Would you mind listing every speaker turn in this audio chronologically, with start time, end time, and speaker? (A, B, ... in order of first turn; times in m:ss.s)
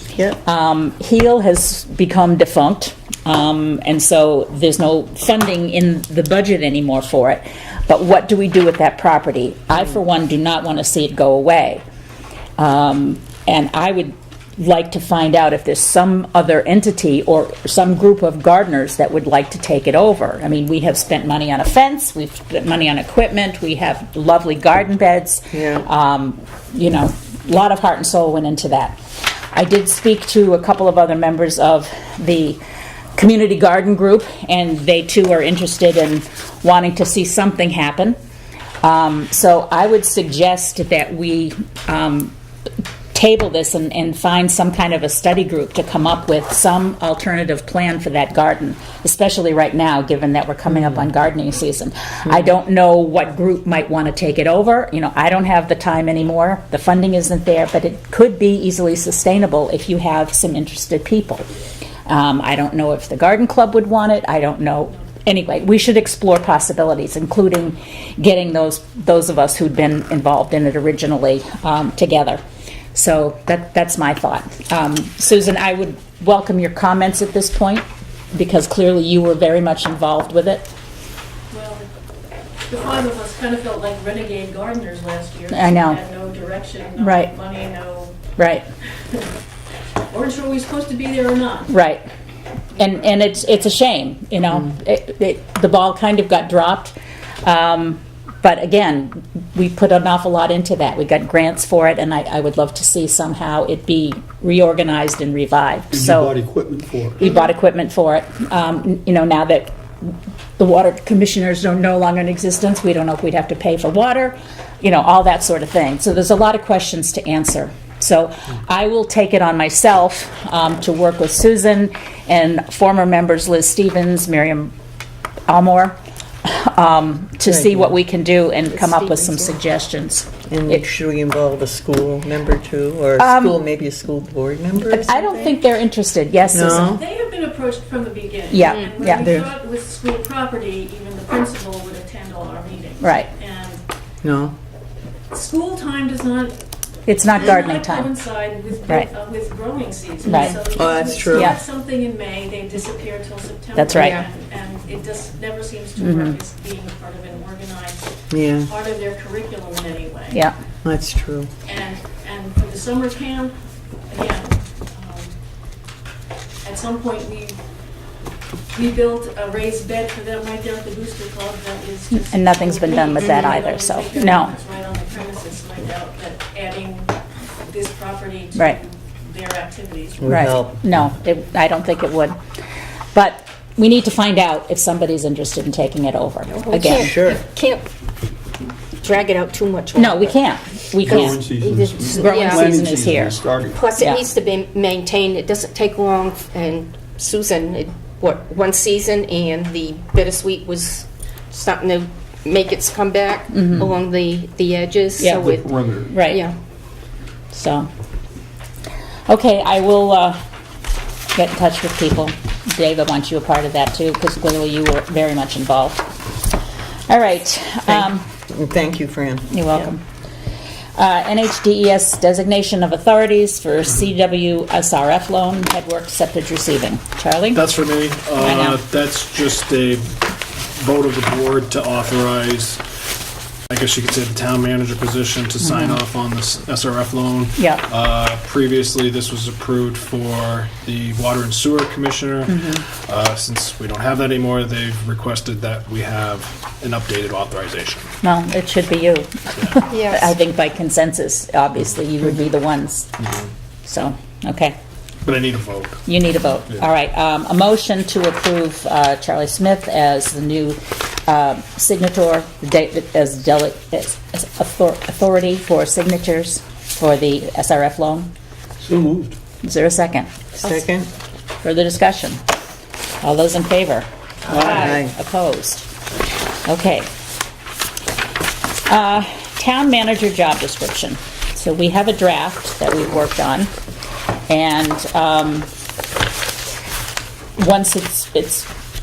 0:00.4-0:11.8 A
0:12.6-0:29.0 A
0:25.5-0:25.9 B
0:29.5-0:32.6 A
0:33.2-0:38.2 A
0:38.8-0:42.3 A
0:43.1-1:01.5 A
1:02.1-1:12.4 A
1:12.9-1:20.7 A
1:21.5-1:21.9 C
1:22.7-1:28.2 C
1:25.5-1:26.0 A
1:27.0-1:27.3 A
1:28.4-1:28.7 A
1:30.1-1:31.7 C
1:31.7-1:32.0 A
1:32.8-1:46.4 A
1:45.9-1:47.2 D
1:47.2-2:04.7 A
2:05.5-2:10.8 A
2:07.4-2:07.9 B
2:08.7-2:09.5 E
2:10.5-2:15.2 B
2:13.2-2:13.6 A
2:14.8-2:17.0 A
2:16.5-2:17.0 B
2:16.5-2:23.8 C
2:18.5-2:19.2 A
2:18.6-2:18.9 E
2:19.1-2:19.5 B
2:23.0-2:23.3 A
2:24.2-2:24.5 B
2:25.3-2:26.6 C
2:27.1-2:28.1 A
2:27.3-2:38.0 C
2:30.2-2:30.6 A
2:30.6-2:31.6 B
2:33.8-2:34.2 A
2:33.9-2:34.2 E
2:36.0-2:36.4 A
2:38.3-2:38.7 B
2:38.6-2:40.5 C
2:40.8-2:41.5 B
2:41.6-2:43.5 C
2:44.1-2:45.3 C
2:46.6-2:47.6 C
2:48.7-3:00.6 C
2:52.1-2:54.5 A
3:00.2-3:00.8 B
3:00.2-3:02.4 A
3:03.1-3:07.1 A
3:06.5-3:07.8 E
3:06.9-3:07.4 B
3:09.0-3:10.4 E
3:10.0-3:11.5 A
3:11.0-3:12.8 E
3:11.0-3:13.9 D
3:12.1-3:13.4 A
3:13.7-3:26.5 E
3:25.2-3:26.4 A
3:25.5-3:26.1 D
3:27.5-3:27.9 A
3:29.3-3:30.4 A
3:31.3-3:36.2 A
3:37.1-3:38.2 A
3:38.0-3:39.5 B
3:39.5-3:40.0 A
3:41.0-3:47.6 A
3:47.5-3:50.2 F
3:48.4-3:48.8 A
3:50.8-3:52.8 F
3:53.7-4:08.1 F
3:55.6-3:56.0 A
3:57.6-3:57.8 A
4:02.5-4:02.8 A
4:08.2-4:13.2 A
4:09.9-4:10.3 E
4:13.8-4:14.8 A
4:15.2-4:16.1 F
4:16.1-4:28.3 A
4:28.8-4:29.3 D
4:29.6-4:30.3 A
4:30.6-4:31.1 B
4:31.6-4:32.4 A
4:33.2-4:35.9 A
4:34.5-4:34.8 D
4:34.6-4:35.1 B
4:36.6-4:37.1 A
4:38.9-4:43.7 A
4:44.5-4:45.7 A
4:47.6-4:48.7 A